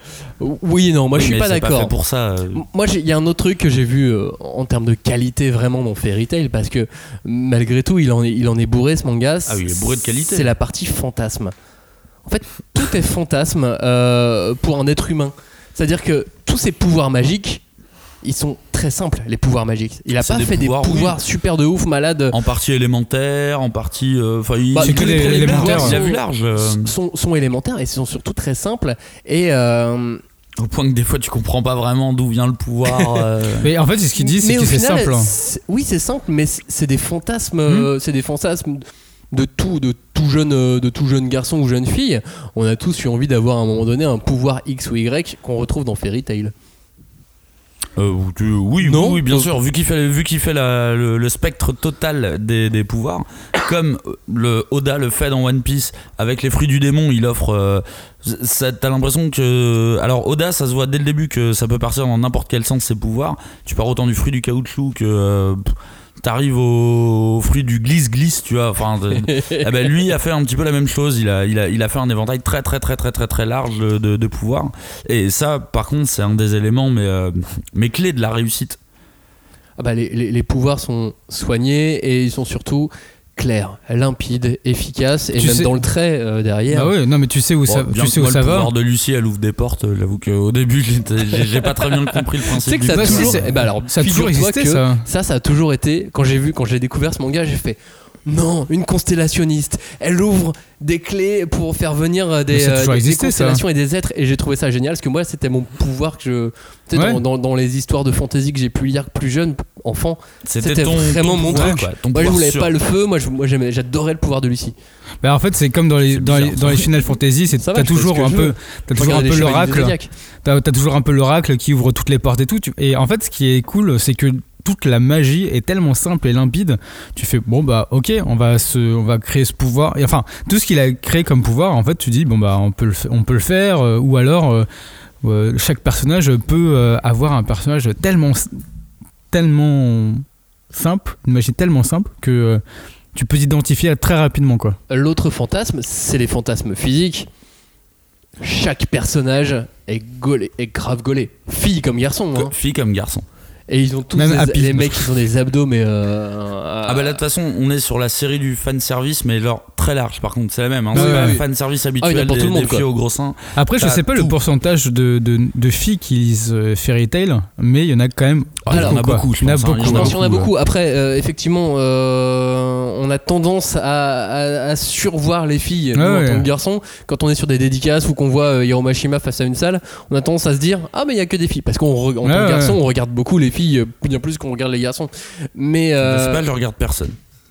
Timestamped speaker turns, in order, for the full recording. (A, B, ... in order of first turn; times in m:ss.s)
0:00.4-0:01.9 A
0:01.2-0:02.6 B
0:02.5-0:11.5 A
0:09.5-0:10.5 B
0:12.2-0:17.6 A
0:18.2-0:22.4 A
0:20.2-0:21.2 B
0:22.3-0:26.9 B
0:24.7-0:30.2 A
0:24.8-0:26.0 C
0:30.6-0:33.7 B
0:33.6-0:35.3 C
0:34.2-0:46.5 A
0:48.0-1:18.8 B
0:48.8-0:49.5 A
1:09.2-1:09.6 A
1:19.8-1:26.9 A
1:25.4-1:25.8 C
1:26.7-1:28.7 C
1:27.7-1:33.4 B
1:32.1-1:54.7 A
1:32.9-1:35.0 C
1:42.5-1:43.6 C
1:46.9-1:47.2 C
1:50.4-1:52.7 B
1:51.5-1:51.8 C
1:55.2-2:14.7 C
1:56.1-1:56.9 B
1:57.6-2:00.1 A
2:15.2-2:18.6 C
2:19.3-2:22.6 C
2:23.1-2:24.8 C
2:24.9-2:27.3 A
2:28.4-2:32.5 A
2:32.3-2:33.2 B
2:33.7-2:37.2 A
2:34.1-2:35.0 C
2:36.9-2:44.3 B
2:40.9-2:41.4 A
2:40.9-2:41.4 C
2:42.0-2:42.8 A
2:43.6-2:50.1 C
2:48.6-2:50.5 B
2:49.8-3:06.4 A
2:55.9-2:56.5 C
3:02.2-3:02.8 C
3:06.0-3:07.2 B